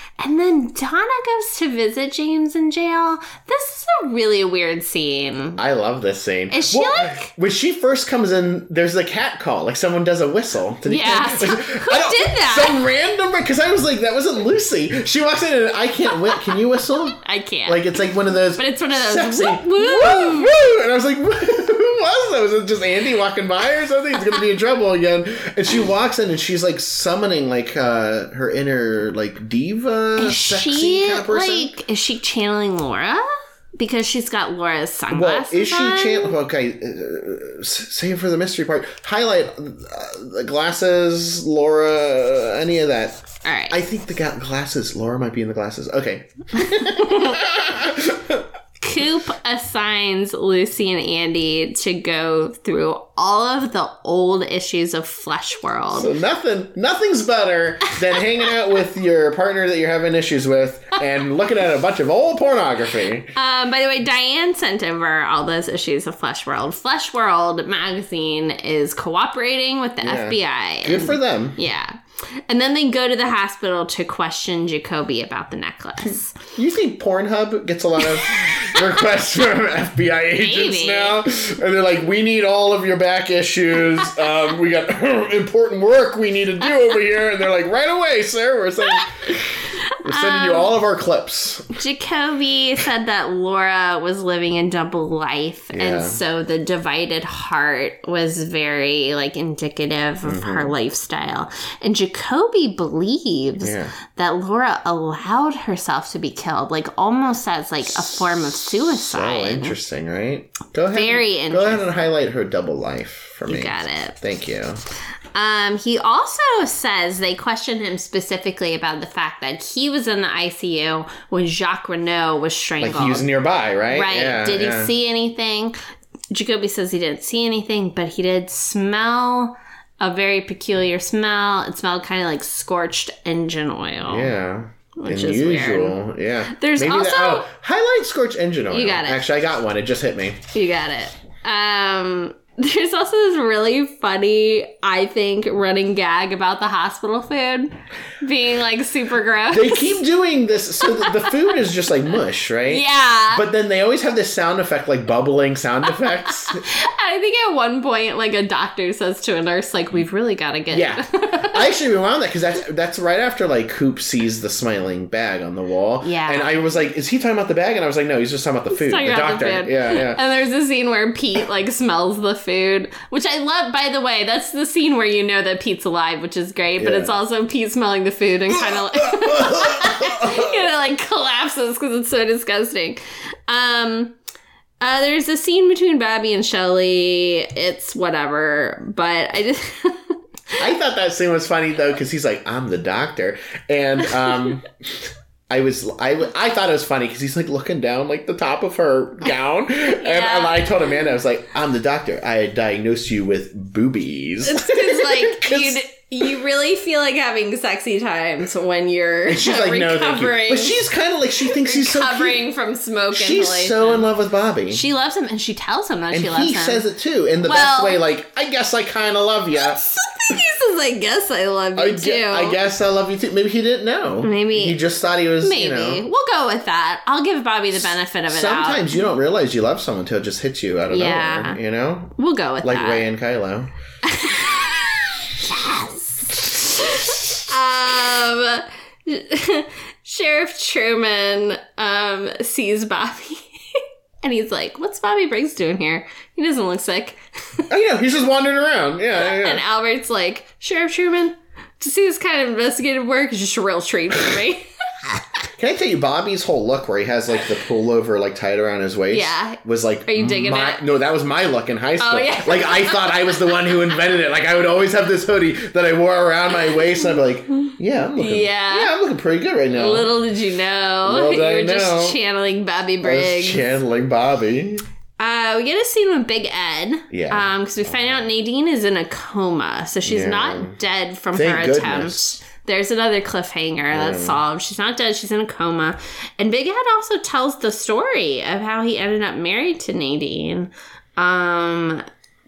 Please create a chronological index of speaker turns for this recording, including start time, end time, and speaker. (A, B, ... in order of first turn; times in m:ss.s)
0:00.2-0:05.6 A
0:05.6-0:31.8 B
0:06.5-0:07.3 A
0:10.9-0:12.8 A
0:17.2-0:17.8 A
0:18.6-0:20.5 A
0:30.2-0:36.4 A
0:35.1-0:48.5 B
0:43.4-0:43.8 A
0:46.7-0:47.4 A
0:48.8-0:56.1 A
0:56.0-1:03.3 B
1:03.4-1:16.4 A
1:10.0-1:11.6 B
1:16.6-1:29.5 B
1:18.2-1:19.0 A
1:20.4-1:21.2 A
1:30.0-1:31.7 B
1:30.0-1:30.7 A
1:31.8-1:49.8 A
1:35.7-1:36.2 B
1:40.2-1:40.7 B
1:43.6-1:43.9 B
1:48.0-1:54.8 B
1:50.9-1:51.8 A
1:53.5-1:54.2 A
1:55.3-2:03.3 A
2:02.8-2:04.9 B
2:03.9-2:05.8 A
2:06.3-2:14.3 A
2:14.1-2:20.4 B
2:15.0-2:16.0 A
2:16.5-2:17.5 A
2:18.7-2:19.3 A
2:20.5-2:30.0 A
2:29.5-2:36.6 B
2:30.8-2:31.4 A
2:32.7-2:33.4 A
2:36.3-2:41.6 A
2:40.7-2:50.2 B
2:46.0-2:46.5 A
2:48.7-3:04.1 A
2:56.8-2:57.1 B
2:58.6-3:00.6 B
3:04.8-3:10.6 A
3:10.6-3:14.7 B
3:15.5-3:25.8 B
3:20.0-3:20.7 A
3:24.5-3:30.8 A
3:29.3-3:32.4 B
3:31.4-3:34.1 A
3:33.1-3:34.8 B
3:34.7-3:36.8 A
3:36.1-3:39.8 B
3:37.4-3:38.0 A
3:39.5-3:42.6 A
3:41.8-3:46.0 B
3:44.2-3:44.8 A
3:45.4-3:49.0 A
3:48.3-3:53.7 B
3:50.9-3:51.6 A
3:52.2-3:53.1 A
3:54.0-4:07.7 A
4:07.7-4:09.6 B
4:09.2-4:15.1 A
4:15.6-4:30.1 B
4:19.1-4:20.8 A
4:22.0-4:23.8 A
4:28.2-4:28.9 A
4:29.7-4:33.8 A
4:31.0-4:32.2 B
4:33.0-4:34.8 B
4:35.2-4:52.1 A
4:37.1-4:37.5 B
4:40.0-4:40.8 B
4:41.3-4:42.4 B
4:43.9-4:44.4 B